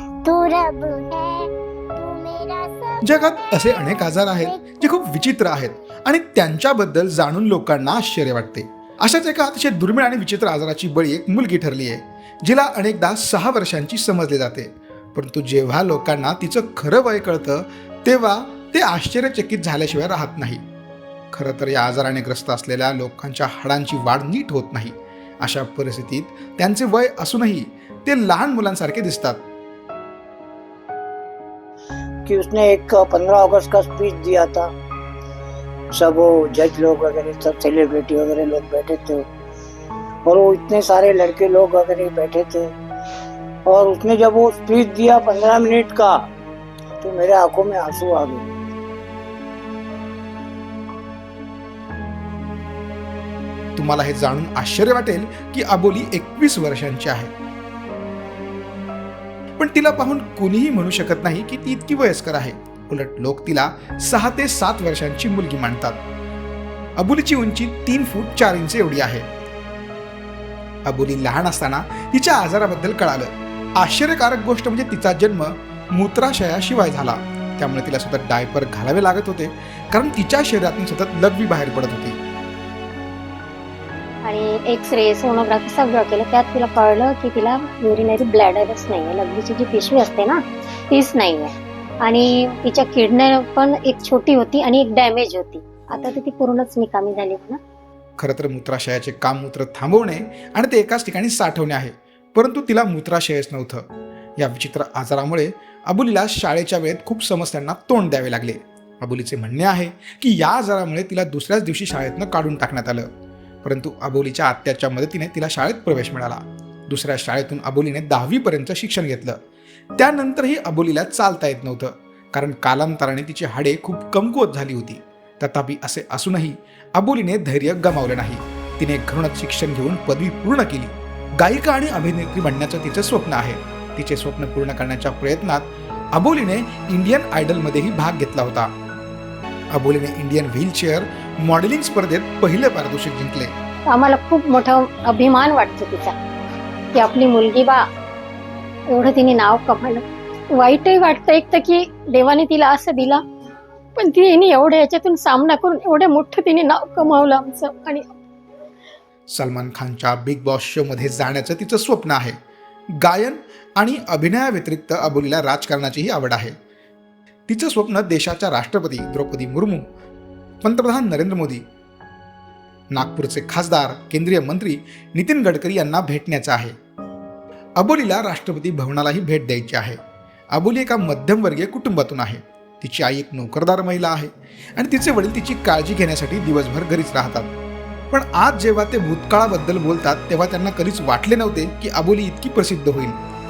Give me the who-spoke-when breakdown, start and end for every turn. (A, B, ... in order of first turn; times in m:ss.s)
0:00.2-0:05.1 A
0:03.0-0:20.6 B
0:21.3-0:29.4 B
0:32.3-0:34.7 C
0:35.9-0:39.2 C
0:40.2-0:42.7 C
0:43.7-0:46.2 C
0:47.0-0:48.5 C
0:53.8-0:57.3 B
0:59.6-1:06.0 B
1:07.0-1:09.2 B
1:10.9-1:22.2 B
1:24.2-1:31.5 D
1:32.0-1:37.6 D
1:38.2-1:43.8 B
1:44.4-1:53.1 B
1:53.6-1:59.4 B
2:00.0-2:18.7 B
2:19.7-2:23.5 B
2:23.9-2:26.1 D
2:26.9-2:27.8 D
2:28.9-2:30.0 D
2:30.5-2:33.2 D
2:34.0-2:38.1 D
2:39.3-2:42.4 B
2:43.0-2:46.5 B
2:47.5-2:49.8 B
2:50.6-2:51.6 B
2:52.9-2:56.7 B
2:57.8-3:00.0 B
3:00.5-3:07.5 B
3:08.1-3:13.2 B